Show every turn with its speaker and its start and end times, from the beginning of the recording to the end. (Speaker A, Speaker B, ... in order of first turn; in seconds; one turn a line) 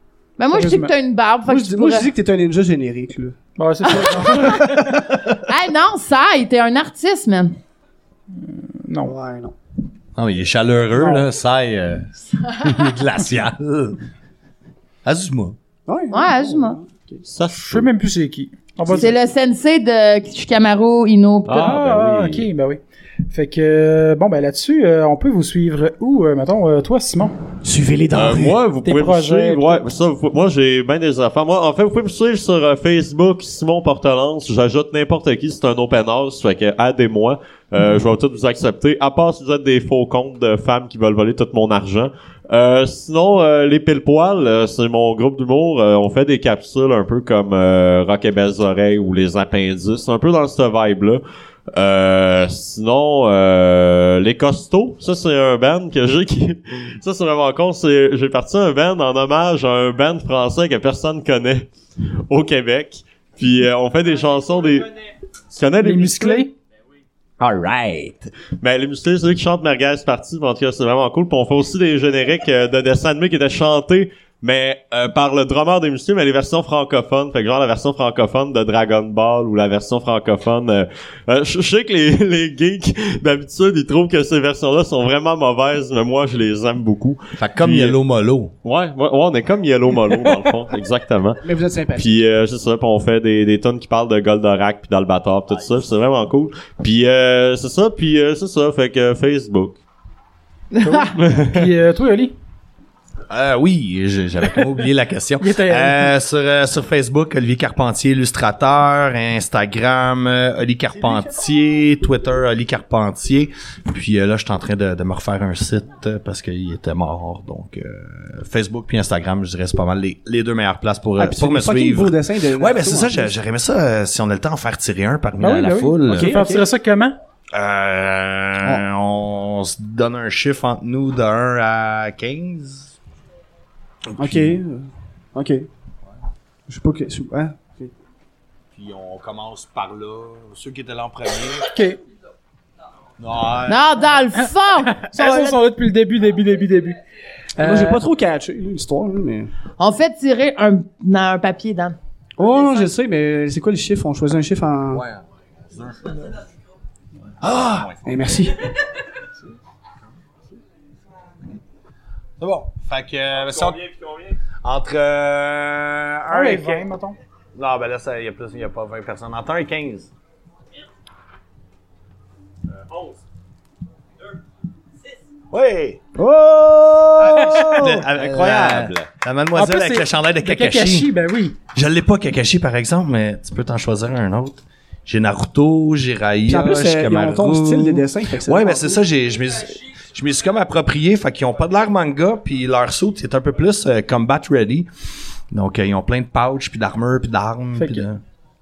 Speaker A: 0.4-2.1
Speaker B: 0.5-0.9
Speaker C: 1.5-3.4
Speaker B: 3.6-4.9
Speaker A: 3.8-7.5
Speaker B: 8.4-9.1
Speaker C: 9.1-9.5
Speaker D: 10.2-14.0
Speaker B: 10.9-11.3
Speaker D: 15.1-15.6
Speaker C: 15.9-17.2
Speaker A: 16.1-16.8
Speaker E: 17.2-17.9
Speaker B: 17.6-19.1
Speaker A: 18.9-21.7
Speaker E: 21.4-22.5
Speaker B: 21.6-27.4
Speaker C: 27.6-28.6
Speaker E: 28.1-61.7
Speaker B: 28.8-29.8
Speaker E: 62.3-64.9
Speaker E: 65.5-66.5
Speaker B: 65.8-66.5
Speaker E: 67.4-88.0
Speaker D: 87.4-88.5
Speaker E: 88.6-91.4
Speaker C: 91.4-92.2
Speaker E: 91.9-99.8
Speaker A: 100.7-101.2
Speaker C: 100.8-101.1
Speaker E: 101.2-101.6
Speaker B: 101.4-102.4
Speaker D: 103.3-126.3
Speaker B: 105.4-106.1
Speaker C: 121.2-123.3
Speaker B: 125.4-127.1
Speaker C: 126.1-126.6
Speaker D: 127.5-132.9
Speaker D: 134.1-134.6
Speaker C: 134.2-135.7
Speaker C: 136.7-137.9
Speaker D: 138.7-141.7
Speaker B: 141.7-142.0
Speaker D: 143.2-144.0
Speaker A: 143.7-145.6
Speaker B: 144.9-147.0
Speaker B: 147.6-148.0
Speaker C: 147.6-149.5
Speaker A: 149.8-152.0
Speaker C: 152.4-155.1
Speaker D: 154.9-156.3
Speaker D: 157.4-158.2
Speaker C: 158.1-158.6
Speaker D: 162.4-166.9
Speaker B: 166.3-167.2
Speaker D: 167.6-170.1
Speaker D: 175.5-176.0
Speaker C: 176.2-178.1
Speaker D: 177.3-181.1
Speaker E: 178.1-179.1
Speaker B: 179.6-181.6
Speaker D: 181.7-194.9
Speaker C: 186.5-189.0
Speaker D: 195.5-198.2
Speaker B: 197.8-198.1